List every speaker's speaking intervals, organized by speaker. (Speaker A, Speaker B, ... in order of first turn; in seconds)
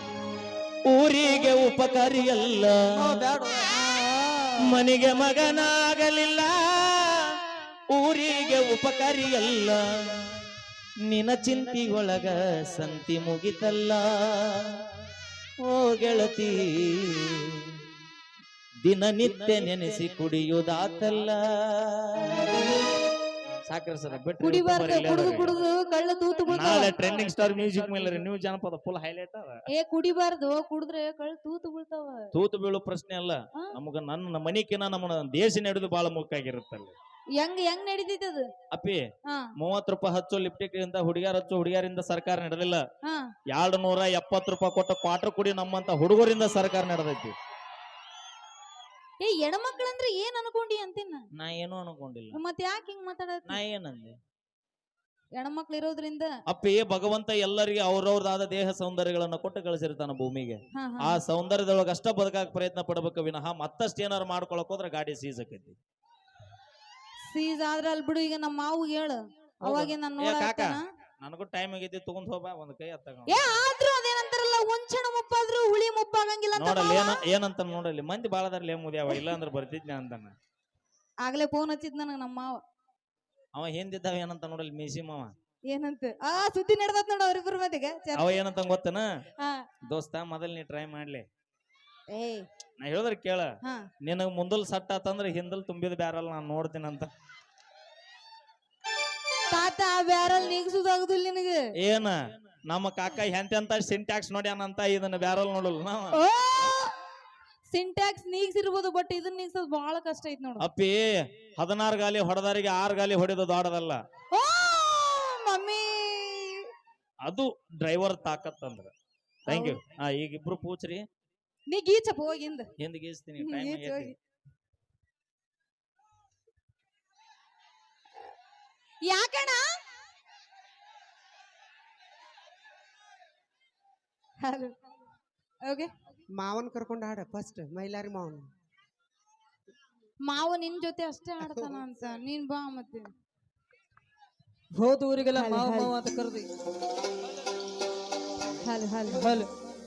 Speaker A: 0.9-3.2, 4.7-7.3, 7.9-10.3, 11.1-14.8, 15.7-17.7, 18.8-22.5, 23.7-25.6, 26.5-29.6, 32.3-37.0, 38.7-39.0, 39.6-42.9, 43.5-47.3, 51.4-52.4, 53.5-54.1, 56.5-65.8, 69.6-73.4, 76.6-80.3, 83.5-85.3, 88.2-89.1, 89.9-91.2, 92.8-93.5, 94.0-97.1, 101.8-102.2, 102.7-106.2, 110.6-114.0, 117.2-118.9, 119.5-121.1, 122.8-124.1
Speaker B: 3.0-4.5, 144.8-146.4, 149.1-149.5
Speaker C: 24.4-27.5, 29.7-32.3, 37.4-38.5, 43.0-43.3, 49.2-51.3, 52.3-53.6, 55.4-56.3, 60.7-61.2, 67.3-70.8, 73.3-77.2, 81.2-82.6, 85.7-88.3, 89.4-89.7, 92.1-92.5, 93.6-93.9, 99.5-101.7, 106.1-106.9, 107.7-110.7, 114.3-116.7, 119.5-119.8, 121.7-122.7, 123.4-124.2, 129.0-129.7, 134.4-134.8, 135.7-135.9, 140.2-143.1, 145.3-145.9, 148.6-149.3
Speaker D: 136.3-138.5